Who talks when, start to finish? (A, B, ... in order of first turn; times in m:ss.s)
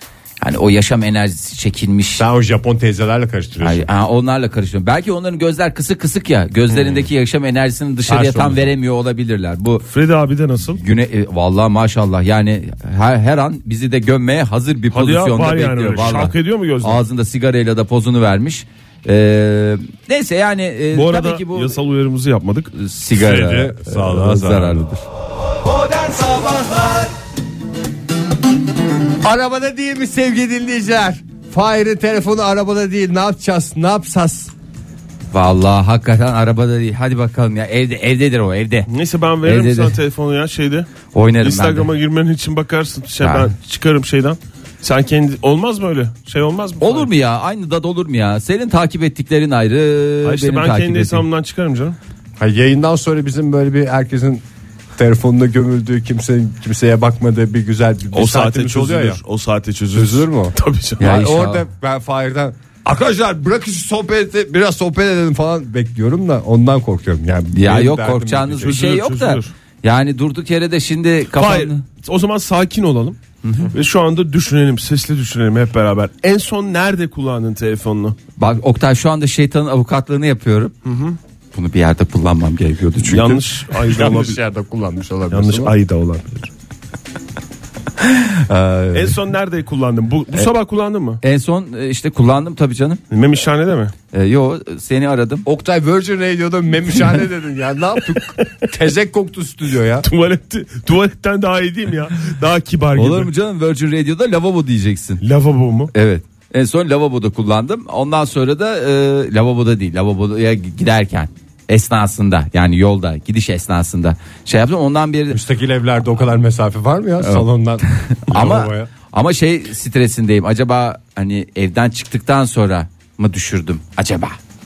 0:00.4-0:02.2 A
0:02.2-0:03.9 B
0:03.6-0:09.8 A
0:08.1-0:08.7 B
0:09.9-0:10.8 C
0:10.8-0:21.8 A
0:14.9-0:17.0 C
0:20.9-0:22.7 C
0:22.8-0:25.0 A
0:23.1-0:24.9 B
0:29.2-0:34.5 B
0:35.3-0:38.9 A
0:38.9-0:40.9 C
0:39.4-0:40.0 A
0:41.1-0:41.9 A
0:41.4-0:47.1 C
0:43.2-0:43.5 A
0:46.8-0:51.2 A
0:50.2-0:52.0 C
0:52.4-0:54.4 B
0:55.0-0:59.2 B
0:58.1-1:01.1 C
0:59.9-1:08.8 B
1:01.0-1:01.6 A
1:07.5-1:11.8 A
1:08.6-1:09.5 C
1:11.3-1:13.2 C
1:13.4-1:13.7 A
1:13.7-1:18.2 C
1:18.4-1:20.7 A
1:20.8-1:21.2 C
1:21.5-1:23.4 A
1:23.1-1:24.4 C
1:23.9-1:25.7 B
1:25.3-1:26.5 C
1:28.5-1:29.1 B
1:28.9-1:31.2 C
1:31.2-1:33.0 A
1:33.1-1:33.9 C
1:34.1-1:35.4 A
1:35.5-1:40.1 B
1:40.0-1:43.3 C
1:43.0-1:45.2 A
1:45.2-1:45.9 C
1:45.9-1:55.4 A
1:55.3-1:58.9 B
1:57.2-2:04.4 A